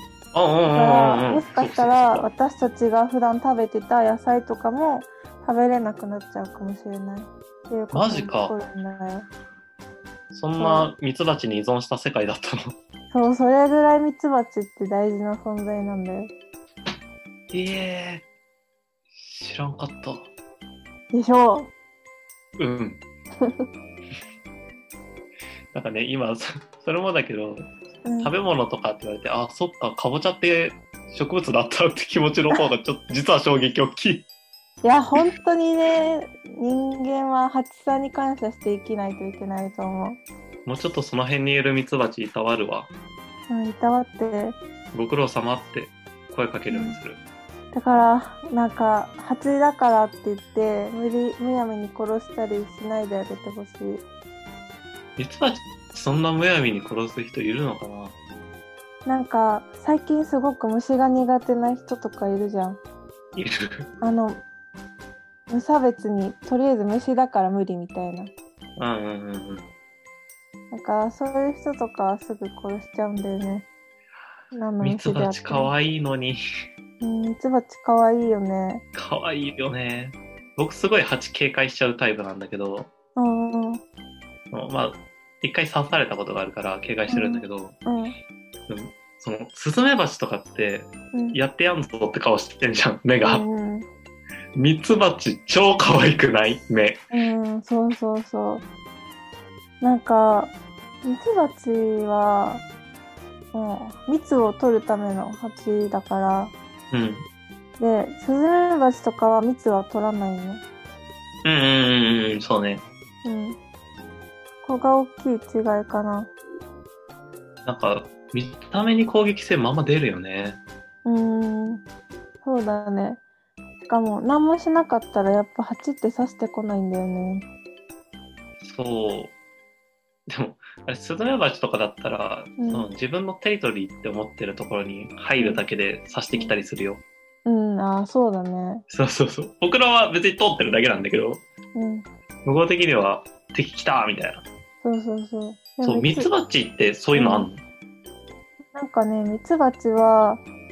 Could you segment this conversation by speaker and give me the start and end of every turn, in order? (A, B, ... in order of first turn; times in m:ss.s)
0:00.3-0:02.3 A
0:00.7-0:09.3 B
0:07.9-0:08.5 A
0:10.3-0:12.8 A
0:10.6-0:10.9 B
0:13.1-0:16.3 B
0:17.5-0:18.3 A
0:19.2-0:20.3 A
0:21.1-0:21.7 B
0:22.6-0:23.0 A
0:23.4-0:23.7 B
0:25.7-0:27.7 A
0:28.0-0:28.3 B
0:28.2-0:34.3 A
0:34.8-0:40.2 B
0:40.6-0:42.9 A
0:43.5-0:44.6 B
0:44.9-0:47.2 A
0:46.7-0:47.0 B
0:47.7-0:54.0 B
0:55.2-0:58.2 A
0:59.1-1:02.8 B
1:03.4-1:03.9 A
1:04.0-1:04.4 B
1:05.5-1:08.3 B
1:08.8-1:09.7 A
1:10.7-1:13.7 B
1:14.5-1:15.7 B
1:14.8-1:16.4 A
1:17.0-1:18.8 B
1:18.9-1:22.9 A
1:23.2-1:23.8 B
1:24.5-1:27.8 A
1:27.1-1:28.1 B
1:28.7-1:33.5 A
1:31.1-1:31.4 B
1:33.2-1:33.9 B
1:34.6-1:37.0 A
1:37.1-1:38.6 B
1:39.8-1:42.6 B
1:43.5-1:46.5 B
1:46.9-1:47.3 A
1:47.8-1:50.6 B
1:51.4-1:52.8 A
1:53.2-1:53.6 B
1:54.6-1:56.3 B
1:57.6-2:00.6 A
2:01.0-2:01.8 B
2:02.4-2:03.2 B
2:03.8-2:07.5 B
2:08.6-2:09.3 A
2:10.3-2:17.0 A
2:12.6-2:12.9 B
2:15.4-2:15.6 B
2:17.4-2:18.8 B
2:18.9-2:21.4 A
2:21.8-2:22.1 B
2:22.4-2:24.4 A
2:24.8-2:26.3 B
2:25.8-2:27.6 A
2:27.1-2:27.5 B
2:28.7-2:30.4 B